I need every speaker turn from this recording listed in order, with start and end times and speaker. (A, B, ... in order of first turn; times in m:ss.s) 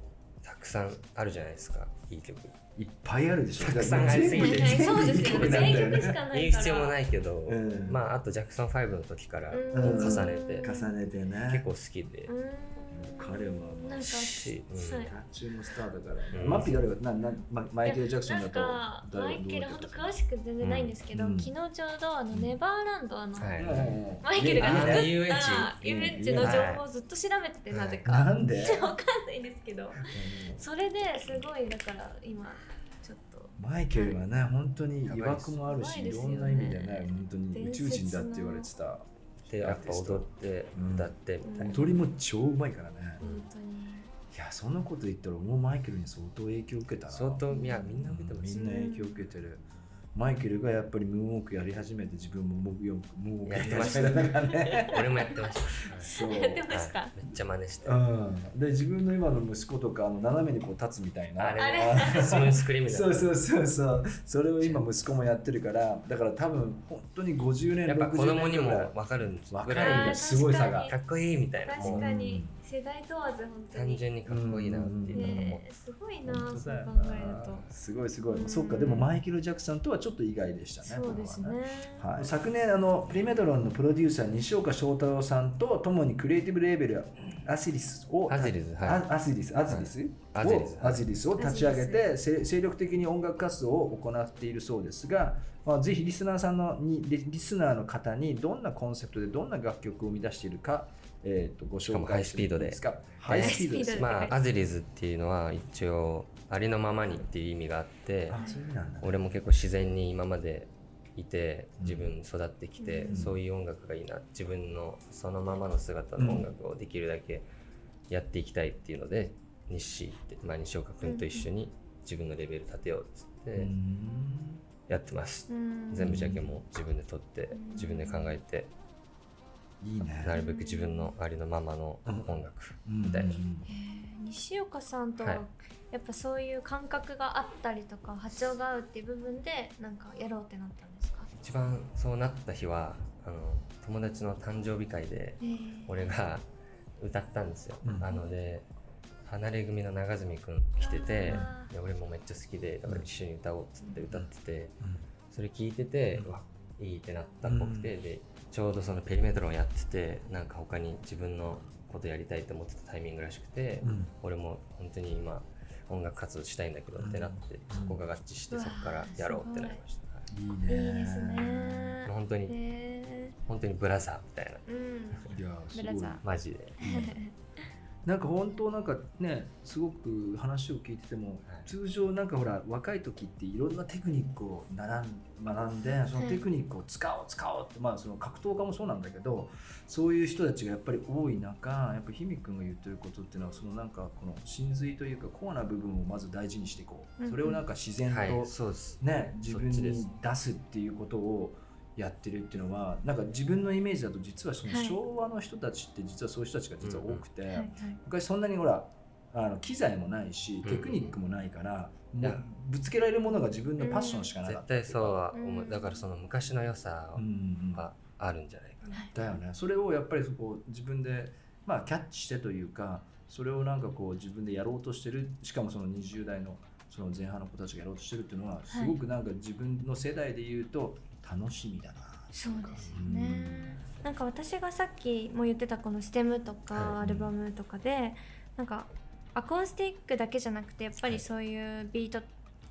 0:00.4-0:02.6 A
0:02.8-0:06.2 B
0:03.6-0:10.7 A
0:04.3-0:07.0 C
0:07.5-0:08.0 B
0:09.5-0:11.0 C
0:09.7-0:11.7 B
0:11.4-0:12.3 A
0:12.3-0:15.1 C
0:12.9-0:14.1 B
0:14.0-0:15.1 A
0:15.0-0:20.2 B
0:16.3-0:16.8 A
0:17.8-0:34.2 C
0:20.6-0:21.0 A
0:21.1-0:21.5 B
0:23.4-0:24.0 A
0:23.6-0:25.1 B
0:24.6-0:26.8 A
0:25.8-0:26.7 B
0:27.7-0:28.0 A
0:28.0-0:29.0 B
0:30.0-0:30.6 B
0:33.6-0:43.2 B
0:35.1-0:35.6 A
0:35.6-0:38.7 C
0:39.5-0:41.8 A
0:41.4-0:41.9 C
0:43.2-0:44.1 C
0:43.2-0:43.4 A
0:44.3-0:49.6 B
0:47.1-0:48.7 A
0:47.5-0:48.0 C
0:48.5-0:49.3 C
0:50.1-0:55.2 B
0:53.4-0:56.2 A
0:54.4-0:55.4 C
0:55.9-0:56.7 B
0:56.0-0:57.1 C
0:56.7-0:58.0 A
0:57.8-1:09.0 B
1:01.4-1:03.3 A
1:01.6-1:02.6 C
1:07.9-1:12.1 A
1:09.5-1:10.9 B
1:09.8-1:11.0 C
1:11.6-1:14.0 C
1:11.8-1:12.6 B
1:13.7-1:15.6 A
1:14.3-1:15.5 B
1:15.1-1:17.7 C
1:16.2-1:44.2 B
1:18.3-1:19.1 C
1:20.8-1:22.1 C
1:28.3-1:29.1 A
1:29.7-1:31.1 A
1:31.4-1:32.1 C
1:41.9-1:48.4 A
1:43.3-1:44.4 C
1:48.3-1:49.3 B
1:49.0-1:57.5 A
1:51.8-1:52.1 B
1:52.8-1:53.2 C
1:53.1-1:53.4 B
1:56.2-1:56.5 B
1:58.1-2:03.7 A
2:01.0-2:01.5 C
2:03.6-2:04.6 B
2:04.9-2:08.7 A
2:05.5-2:06.3 C
2:06.0-2:06.5 B
2:07.5-2:08.4 C
2:09.8-2:10.4 B
2:10.1-2:13.4 A
2:10.3-2:11.1 C
2:12.1-2:13.7 B
2:13.6-2:21.3 C
2:21.4-2:26.4 A
2:25.4-2:26.2 C
2:27.0-2:28.7 A
2:27.8-2:28.1 B
2:29.2-2:34.8 A
2:30.8-2:31.7 C
2:35.3-2:50.3 A
2:37.4-2:37.9 B
2:43.8-2:44.1 B
2:47.0-2:48.0 B
2:48.5-2:49.8 C
2:50.3-2:52.0 B
2:50.7-2:53.4 C
2:52.0-2:52.6 A
2:53.4-2:55.2 A
2:54.7-2:56.2 C
2:55.3-2:56.2 B
2:56.2-2:57.2 A
2:56.8-2:57.3 C
2:56.8-2:57.2 B
2:58.0-3:35.2 B
3:06.2-3:06.4 C
3:17.2-3:17.6 C
3:18.1-3:20.1 A
3:24.7-3:25.0 C
3:26.8-3:27.2 A
3:27.5-3:28.0 C
3:30.6-3:31.2 A
3:33.8-3:34.4 C
3:34.4-3:39.2 A
3:35.3-3:36.0 C
3:37.2-3:37.9 B
3:38.9-3:39.1 C
3:39.1-3:53.8 B
3:48.7-3:49.0 C
3:52.3-4:02.3 C
3:56.7-3:57.0 A
3:57.0-3:57.3 B
4:01.0-4:01.3 A